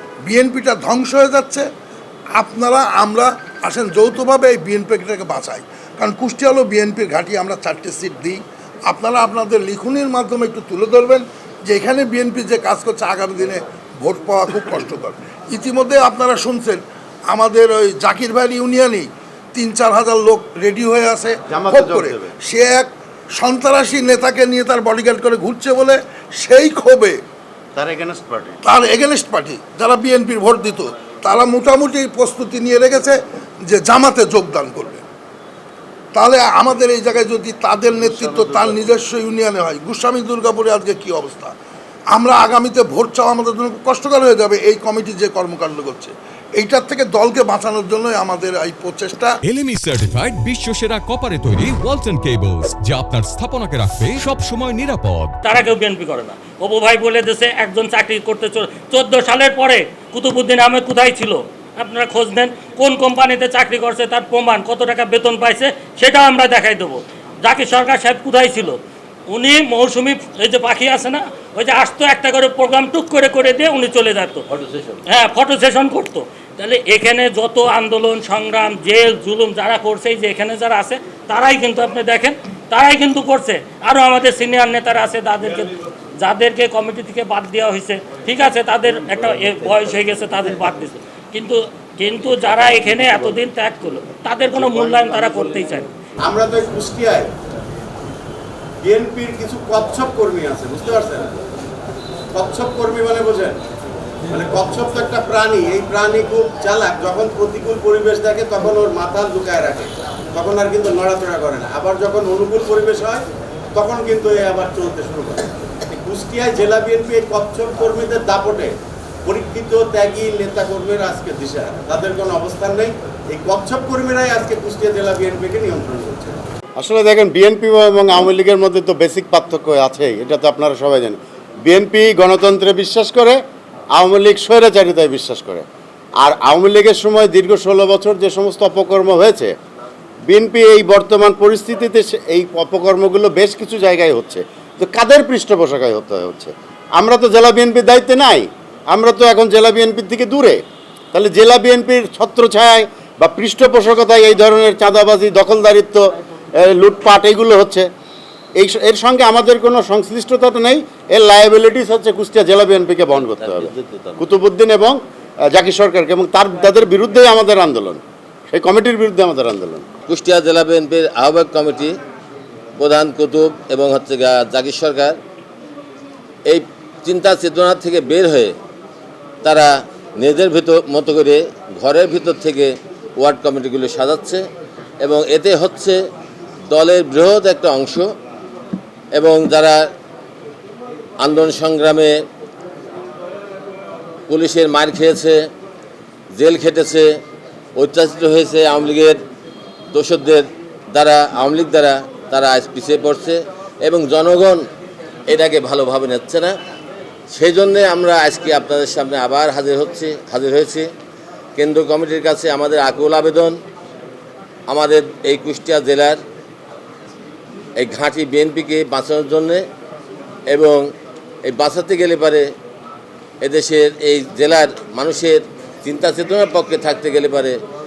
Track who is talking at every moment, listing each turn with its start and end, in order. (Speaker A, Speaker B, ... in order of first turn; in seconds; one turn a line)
Speaker A: 0.2-1.7
Speaker A: 2.4-27.2
Speaker B: 21.5-22.3
Speaker B: 27.8-28.6
Speaker A: 28.6-35.0
Speaker A: 36.1-41.5
Speaker B: 38.0-38.8
Speaker A: 42.1-49.4
Speaker C: 49.5-55.3
Speaker D: 55.4-68.8
Speaker D: 69.3-85.7
Speaker D: 86.2-95.9
Speaker E: 96.2-97.3
Speaker E: 98.8-101.4
Speaker E: 102.3-103.6
Speaker E: 104.3-118.7
Speaker E: 119.2-126.4
Speaker B: 126.8-133.4
Speaker B: 133.9-135.7
Speaker B: 136.2-139.5
Speaker B: 140.3-150.6
Speaker B: 151.1-157.9
Speaker B: 158.6-165.0
Speaker F: 163.2-164.2
Speaker B: 165.5-169.9
Speaker F: 170.1-172.0
Speaker F: 172.8-175.2
Speaker F: 176.5-178.6
Speaker F: 179.4-184.4
Speaker F: 185.0-186.0
Speaker F: 186.7-188.1
Speaker F: 189.1-189.9
Speaker F: 191.2-192.2
Speaker F: 194.3-195.4
Speaker F: 196.3-197.1
Speaker F: 197.8-199.2
Speaker F: 199.9-204.6
Speaker F: 205.3-206.6
Speaker F: 207.3-210.9
Speaker F: 211.6-213.6
Speaker F: 214.7-216.2
Speaker F: 217.8-219.6
Speaker F: 220.5-220.8
Speaker F: 221.4-222.5
Speaker F: 223.4-227.6